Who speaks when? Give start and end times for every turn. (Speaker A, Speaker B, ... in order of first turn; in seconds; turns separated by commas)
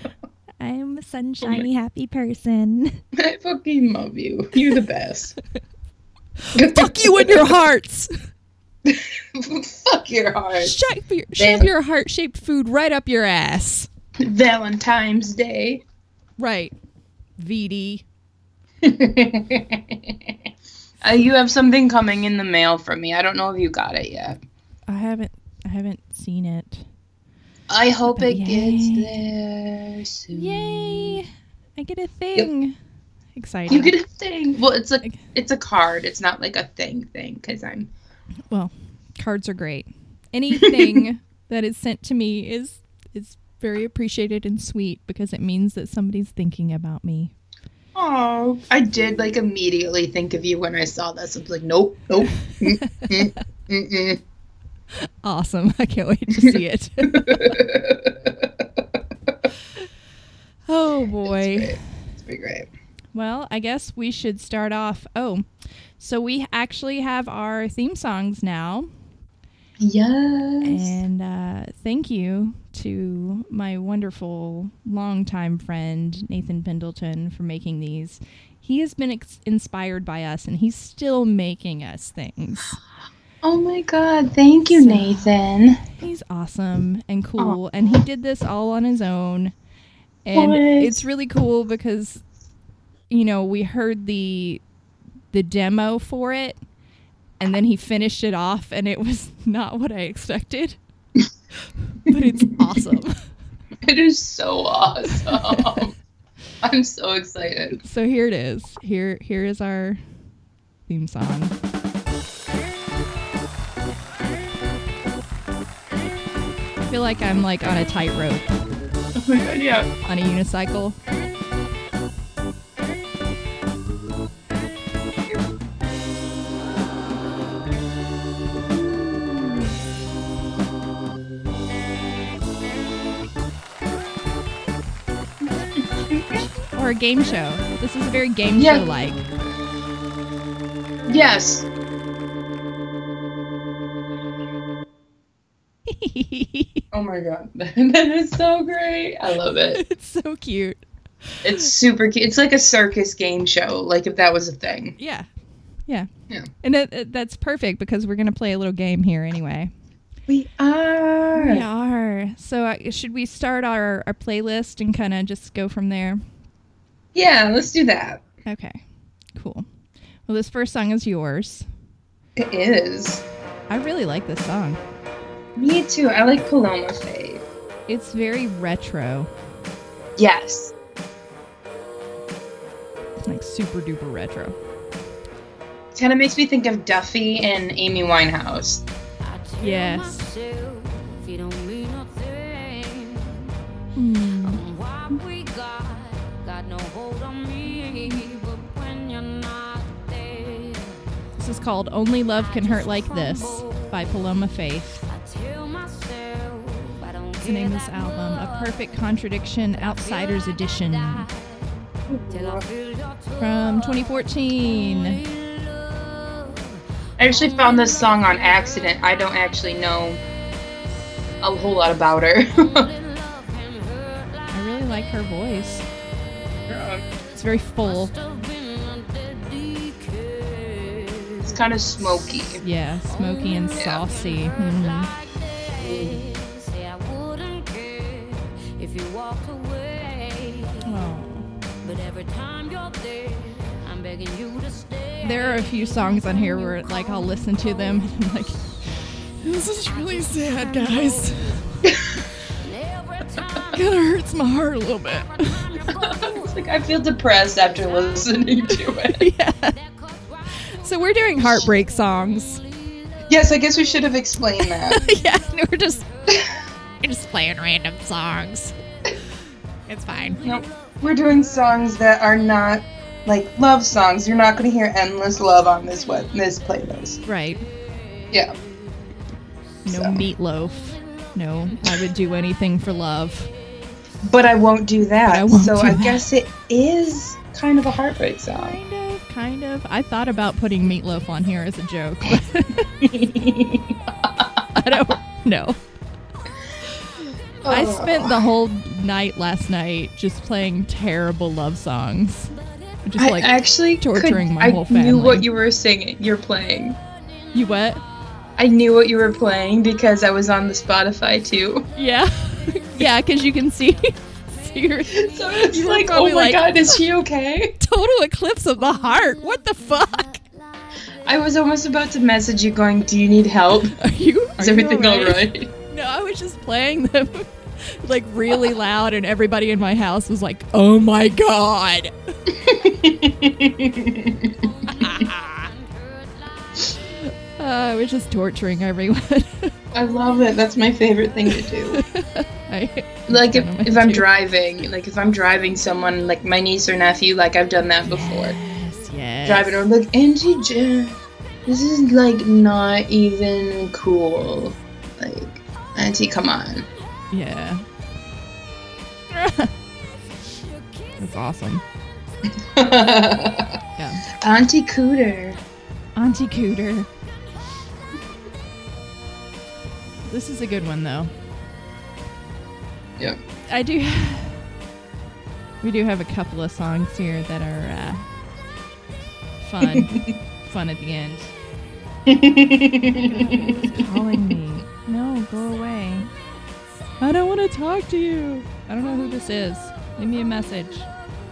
Speaker A: 0.6-3.0, Speaker B: 3.1-5.3, Speaker A: 6.4-8.1, Speaker B: 6.5-7.5, Speaker B: 8.8-10.8, Speaker A: 10.6-13.9, Speaker B: 11.4-11.7, Speaker B: 14.2-15.8, Speaker A: 16.4-16.7, Speaker A: 17.4-18.0, Speaker B: 18.8-20.3, Speaker B: 21.0-24.4, Speaker A: 24.9-26.8, Speaker B: 27.7-31.2, Speaker A: 28.1-29.1, Speaker A: 30.3-32.7, Speaker A: 33.4-33.9, Speaker B: 33.7-37.9, Speaker A: 38.5-47.3, Speaker B: 40.5-41.0, Speaker B: 47.9-54.2, Speaker A: 52.8-53.2, Speaker A: 55.2-57.6, Speaker B: 57.1-58.6, Speaker A: 60.7-61.8, Speaker B: 61.2-62.7, Speaker A: 63.1-65.4, Speaker A: 66.0-68.9, Speaker B: 69.8-71.0, Speaker A: 70.6-82.8, Speaker B: 83.4-85.8, Speaker A: 84.7-85.3, Speaker A: 86.0-89.5, Speaker A: 90.2-92.2, Speaker B: 90.3-91.0, Speaker A: 93.1-94.6, Speaker A: 95.3-96.6, Speaker A: 97.4-100.8, Speaker A: 101.9-103.2, Speaker B: 103.8-105.9, Speaker A: 105.3-105.8, Speaker B: 106.6-107.8, Speaker A: 107.8-110.0, Speaker A: 110.9-111.5, Speaker A: 116.8-118.5, Speaker B: 119.1-119.9, Speaker A: 120.0-121.0, Speaker B: 128.8-129.7, Speaker B: 135.5-136.4, Speaker A: 136.7-139.2, Speaker B: 138.6-138.9, Speaker B: 141.1-141.7, Speaker A: 145.9-146.8, Speaker B: 146.9-149.8, Speaker A: 149.7-150.8, Speaker A: 151.4-151.7, Speaker B: 151.4-154.9, Speaker A: 155.0-155.3, Speaker A: 156.6-159.7, Speaker B: 160.3-161.6, Speaker A: 161.3-166.2, Speaker B: 167.1-168.2, Speaker A: 168.4-168.8, Speaker A: 169.3-169.7, Speaker A: 170.3-171.7, Speaker B: 172.3-173.2, Speaker A: 173.7-174.8, Speaker B: 175.6-177.4, Speaker A: 177.9-179.3, Speaker B: 180.2-180.7, Speaker A: 183.2-184.6, Speaker B: 185.9-188.8, Speaker C: 189.3-193.3, Speaker A: 189.6-190.3, Speaker A: 193.9-194.6, Speaker C: 194.6-200.8, Speaker A: 201.4-205.0, Speaker C: 205.1-208.0, Speaker A: 207.4-211.3, Speaker B: 212.1-212.7, Speaker A: 213.4-215.2, Speaker B: 217.2-220.2, Speaker B: 221.4-222.9, Speaker C: 223.3-224.3, Speaker A: 224.5-225.8, Speaker B: 226.7-227.0, Speaker A: 227.3-228.1, Speaker C: 228.2-231.4, Speaker B: 231.4-232.6, Speaker A: 232.6-235.1, Speaker B: 233.8-234.0, Speaker B: 235.8-236.2, Speaker C: 236.0-240.8, Speaker A: 240.8-241.5, Speaker C: 241.9-245.1, Speaker A: 245.2-251.8, Speaker B: 251.8-252.2, Speaker C: 252.9-253.5, Speaker A: 253.7-255.8, Speaker B: 255.9-259.3, Speaker A: 259.1-259.8, Speaker A: 260.6-262.6, Speaker B: 263.3-265.1, Speaker A: 264.7-266.1, Speaker A: 267.0-268.7, Speaker A: 269.9-270.4, Speaker B: 270.4-277.2, Speaker A: 277.3-277.7, Speaker A: 279.9-283.5, Speaker B: 279.9-280.2, Speaker B: 284.2-288.8, Speaker A: 285.3-286.2, Speaker A: 288.5-293.0, Speaker B: 293.0-294.6, Speaker A: 294.7-295.8, Speaker B: 297.6-298.4, Speaker A: 297.7-302.5, Speaker A: 303.1-305.5, Speaker B: 303.2-307.0, Speaker A: 307.5-308.0, Speaker B: 308.6-311.9, Speaker A: 311.9-316.9, Speaker B: 315.1-317.8, Speaker A: 317.8-320.4, Speaker B: 321.2-324.0, Speaker A: 323.8-332.1, Speaker B: 324.6-325.7, Speaker B: 332.5-334.7, Speaker A: 334.9-335.5, Speaker A: 337.1-339.7, Speaker B: 339.9-342.0, Speaker A: 341.9-344.2, Speaker B: 343.3-348.6, Speaker A: 348.1-349.7, Speaker B: 349.4-356.9, Speaker A: 357.3-357.8, Speaker A: 359.3-359.7, Speaker A: 361.2-361.8, Speaker B: 362.6-363.8, Speaker A: 364.0-364.3, Speaker B: 364.3-365.6, Speaker A: 366.1-367.1, Speaker A: 370.3-371.3, Speaker A: 373.7-374.6, Speaker A: 375.8-378.2, Speaker A: 379.6-381.5, Speaker B: 379.8-380.3, Speaker B: 382.2-384.2, Speaker A: 383.2-386.3, Speaker A: 387.2-391.1